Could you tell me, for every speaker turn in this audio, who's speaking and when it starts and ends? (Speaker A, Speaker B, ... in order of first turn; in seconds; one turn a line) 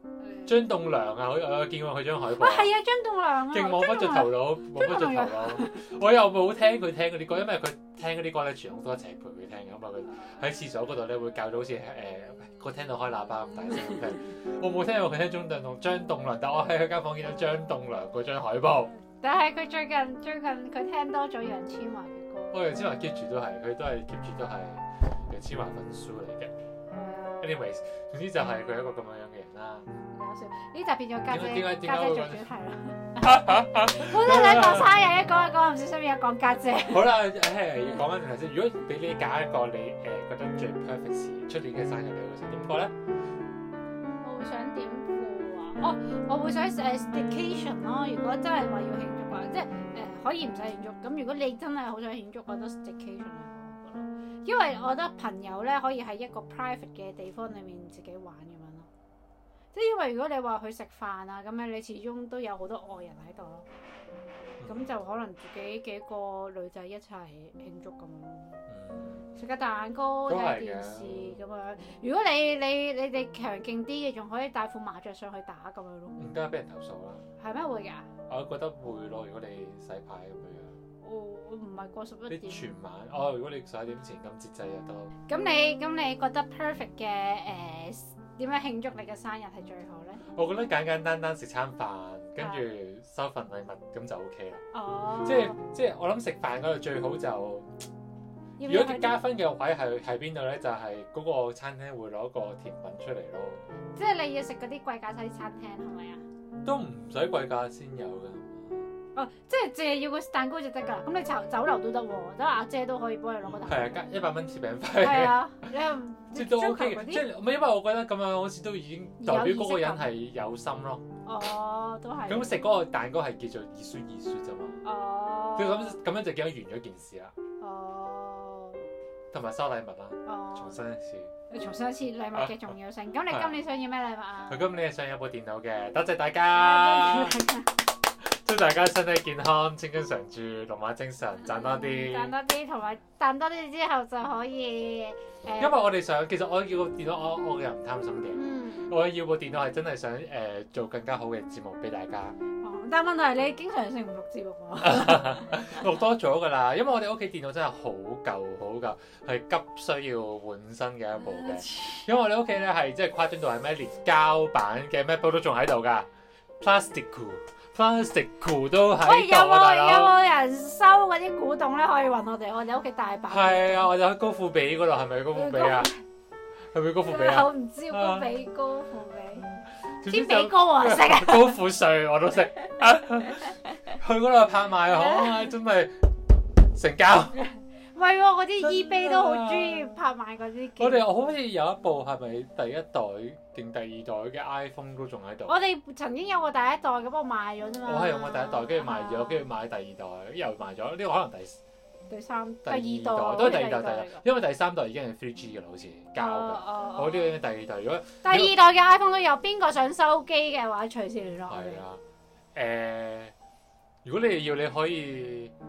Speaker A: 0.4-2.7
Speaker B: 2.3-5.8
Speaker A: 3.5-18.9
Speaker B: 19.2-22.6
Speaker A: 22.5-26.5
Speaker B: 26.9-27.5
Speaker A: 27.4-29.9
Speaker B: 30.1-37.1
Speaker A: 31.3-32.5
Speaker A: 33.2-35.0
Speaker A: 36.8-42.9
Speaker B: 44.2-58.9
Speaker B: 59.7-63.7
Speaker A: 64.6-64.9
Speaker B: 64.6-68.6
Speaker A: 68.7-69.3
Speaker B: 69.3-76.3
Speaker A: 70.3-71.4
Speaker A: 76.2-77.2
Speaker B: 77.4-78.1
Speaker A: 78.3-80.8
Speaker B: 81.0-82.7
Speaker A: 82.3-85.1
Speaker B: 85.3-90.2
Speaker A: 90.3-94.6
Speaker B: 92.4-92.6
Speaker B: 94.7-95.6
Speaker A: 95.2-97.8
Speaker B: 98.6-99.2
Speaker A: 98.7-103.6
Speaker B: 104.0-106.2
Speaker A: 106.6-108.9
Speaker B: 109.1-114.0
Speaker A: 113.4-115.4
Speaker B: 115.0-117.2
Speaker A: 116.3-121.0
Speaker B: 119.2-120.1
Speaker B: 121.2-122.7
Speaker A: 122.3-124.8
Speaker B: 124.8-126.0
Speaker A: 125.5-127.3
Speaker B: 127.6-128.9
Speaker A: 129.3-131.3
Speaker B: 130.2-130.8
Speaker B: 131.5-134.7
Speaker A: 132.3-132.7
Speaker A: 133.3-133.6
Speaker A: 134.5-137.4
Speaker B: 136.5-137.7
Speaker A: 138.2-142.3
Speaker B: 141.5-145.9
Speaker A: 145.6-152.4
Speaker B: 148.3-148.9
Speaker B: 152.6-155.5
Speaker A: 154.8-166.1
Speaker B: 161.2-162.1
Speaker A: 166.6-170.1
Speaker B: 169.0-173.9
Speaker A: 173.3-175.9
Speaker B: 175.3-176.0
Speaker A: 176.7-178.3
Speaker B: 177.1-179.5
Speaker A: 180.0-186.1
Speaker B: 180.1-181.6
Speaker B: 184.9-185.4
Speaker A: 186.7-187.4
Speaker B: 187.9-191.1
Speaker A: 188.6-190.0
Speaker A: 190.8-195.6
Speaker B: 195.5-199.5
Speaker A: 197.8-201.6
Speaker B: 202.1-204.2
Speaker A: 202.6-208.6
Speaker B: 206.2-207.3
Speaker B: 208.2-211.8
Speaker A: 211.5-212.0
Speaker A: 212.5-213.3
Speaker A: 214.0-215.5